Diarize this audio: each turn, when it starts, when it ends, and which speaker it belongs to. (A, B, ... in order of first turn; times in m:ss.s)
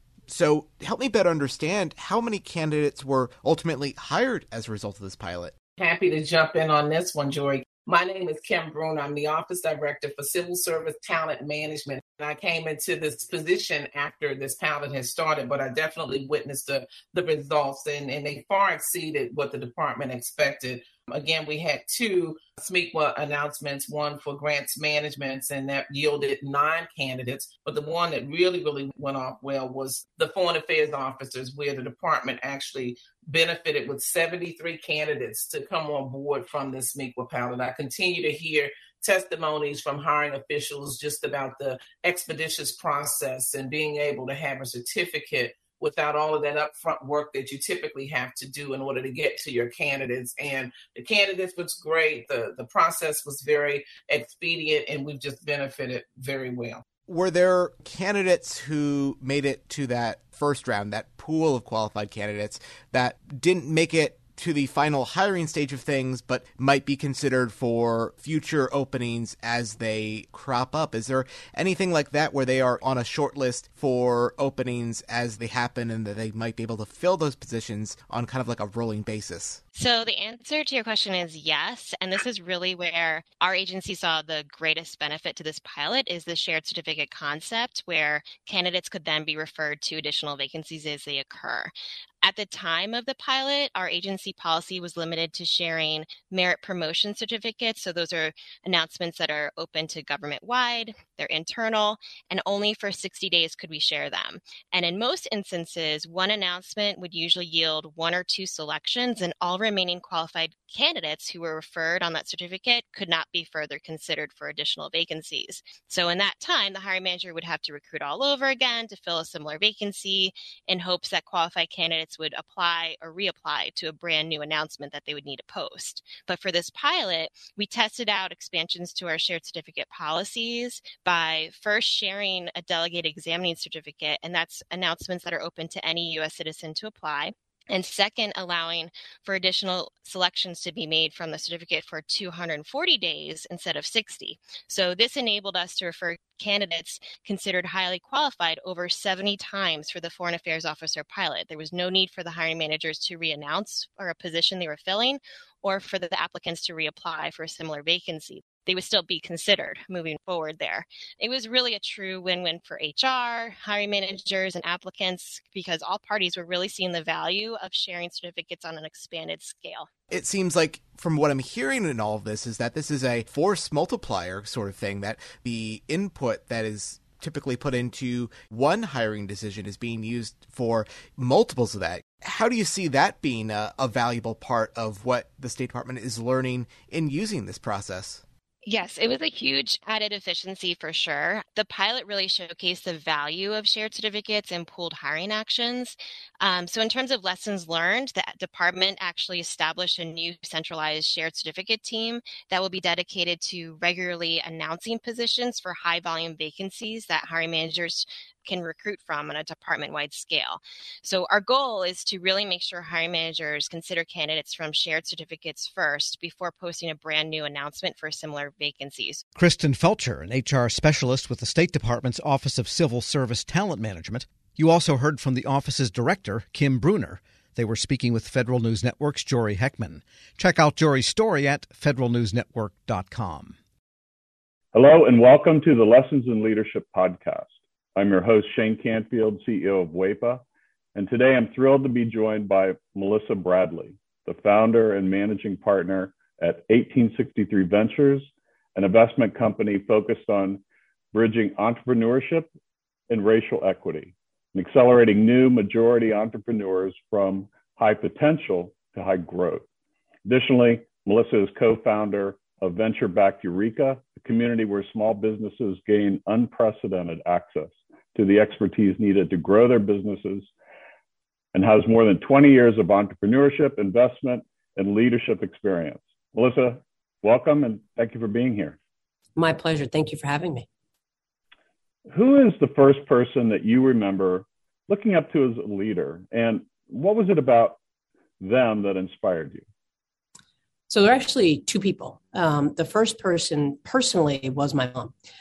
0:00.3-0:05.5 A
0:05.8-0:56.8 B
0:57.1-1:19.6 A
1:19.7-2:49.9 C
2:50.1-3:08.2 A
3:08.6-3:39.2 C
3:39.4-3:53.5 D
3:54.7-4:00.4 E
4:00.9-4:10.6 E
4:11.1-4:12.5 E
4:13.1-4:19.7 E
4:20.2-4:30.5 E
4:31.5-4:38.8 E
4:39.4-4:40.6 F
4:42.1-4:47.8 E
4:48.4-4:49.6 E
4:50.9-4:55.1 F